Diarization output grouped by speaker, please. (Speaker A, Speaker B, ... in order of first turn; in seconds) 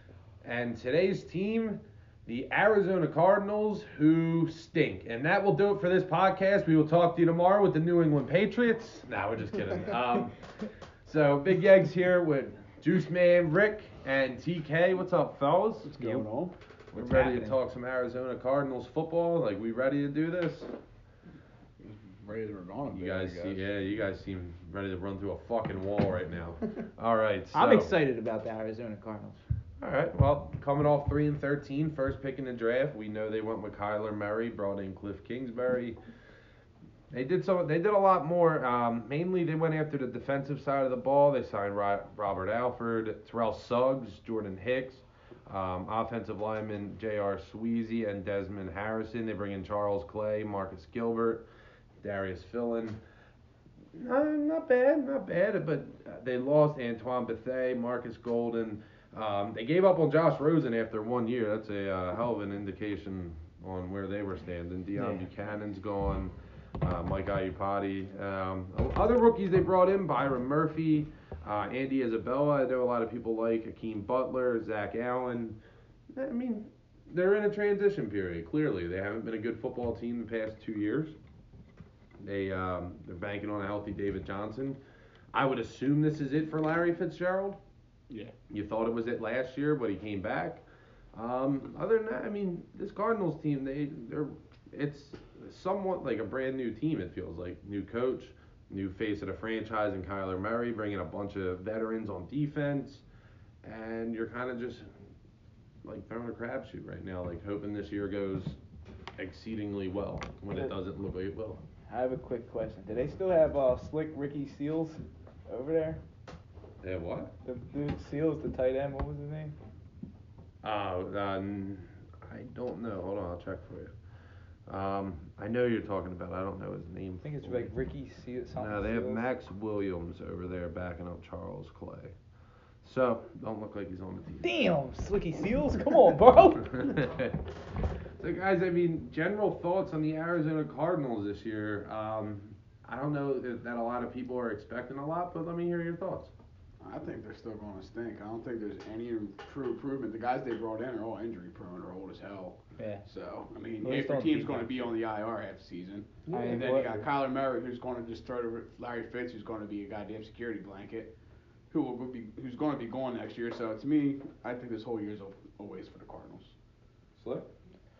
Speaker A: 0.4-15.9, 16.9-20.7, 22.9-27.9, 29.8-36.0, 37.1-51.4, 52.0-53.0, 53.9-75.6, 76.1-81.2, 82.2-84.8, 85.3-87.6, 88.5-103.0, 103.6-104.9, 105.8-108.6, 109.2-111.6, 116.8-117.3, 120.6-123.9, 124.7-127.7, 128.6-132.1, 132.8-134.5, 136.7-137.5, 138.2-146.3, 156.3-157.1, 167.2-167.5
Speaker B: 15.8-16.5, 21.8-23.7, 146.8-161.1, 161.7-166.5
Speaker C: 16.0-16.2, 16.9-17.6, 27.5-29.4, 64.9-65.3, 111.9-116.0, 117.4-119.5, 127.2-129.3, 134.4-136.9, 152.8-153.0, 153.8-154.9, 156.3-157.0